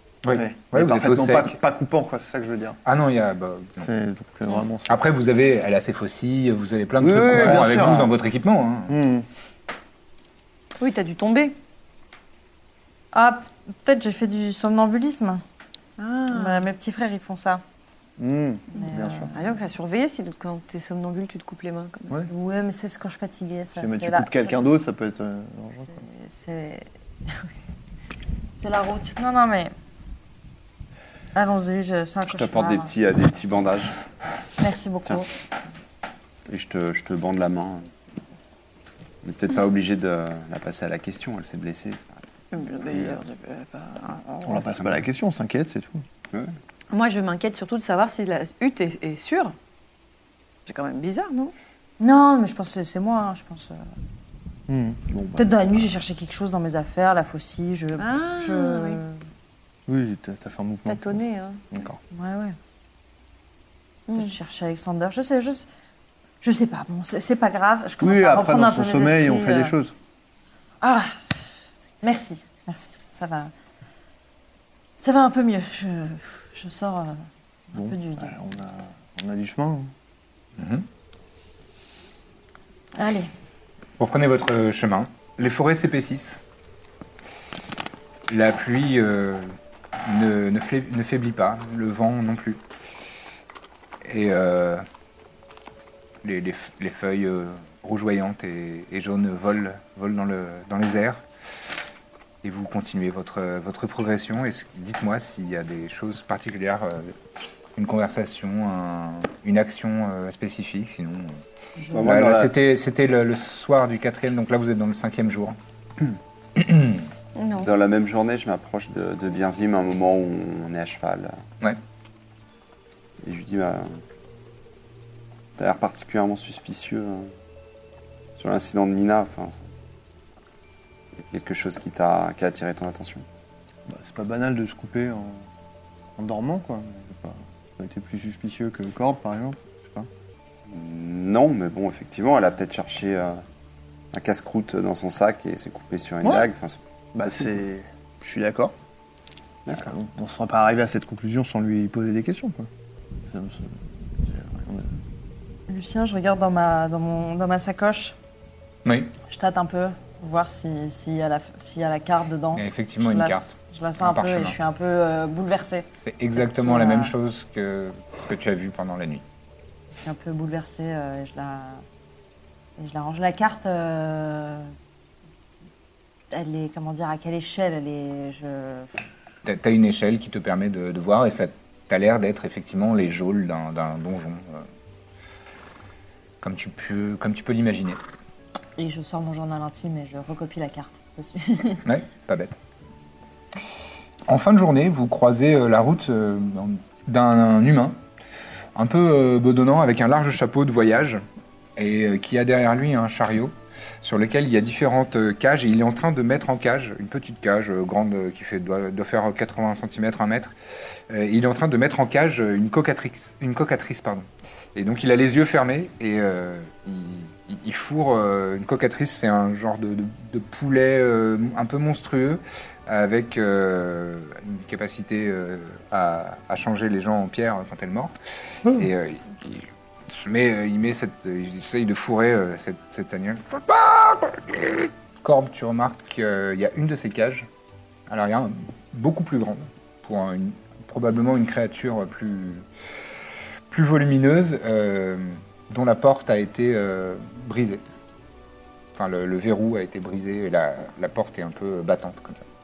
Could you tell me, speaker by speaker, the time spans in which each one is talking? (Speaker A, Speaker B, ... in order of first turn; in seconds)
Speaker A: 0.2-1.6, 2.8-3.9, 4.9-8.9, 80.6-80.9, 84.0-86.4, 88.3-92.6, 94.0-94.8, 96.2-101.2, 102.4-107.1, 107.8-111.4, 112.0-115.6, 116.5-117.1, 158.8-159.1, 162.5-163.5, 164.0-164.6, 166.0-169.2, 179.4-184.7, 186.4-188.0, 191.8-192.6, 194.3-198.0, 198.8-201.2, 201.8-210.5, 211.1-228.1, 228.7-237.5, 238.1-242.7, 243.7-247.8, 249.0-252.5
Speaker B: 0.3-2.8, 3.8-5.0, 7.0-8.1, 8.9-9.3, 18.2-19.3, 23.8-26.0, 44.4-46.1, 54.7-55.9, 59.9-61.2, 61.7-62.0, 68.0-70.0, 77.7-79.9, 111.9-112.5, 133.9-135.5, 136.2-140.1, 146.2-146.5, 147.2-148.7, 149.7-152.7, 153.3-154.9
Speaker C: 10.8-11.6, 16.0-16.7, 19.3-22.2, 42.5-44.7, 46.9-49.5, 50.7-51.5, 58.0-59.0, 60.9-61.6, 64.1-64.3, 117.4-117.7
Speaker D: 13.1-15.4, 16.3-17.6, 18.7-19.5, 22.3-24.7, 25.9-26.9, 28.6-29.7, 31.4-32.9, 34.6-35.3, 52.0-53.8, 55.4-59.2, 62.1-62.6, 64.1-65.7, 66.4-69.7, 70.8-71.2, 72.0-73.5, 75.0-78.4, 83.0-83.3, 155.7-158.2, 159.3-165.9, 166.6-167.1, 169.9-171.8, 172.8-174.7, 176.3-179.0, 188.8-191.8
Speaker E: 32.3-34.0, 36.5-37.9, 39.2-42.2, 42.9-43.2, 112.0-112.5, 117.6-121.4, 123.2-124.0, 125.6-127.3, 128.4-129.6, 131.2-133.3, 140.7-143.4, 144.1-146.8, 149.7-149.9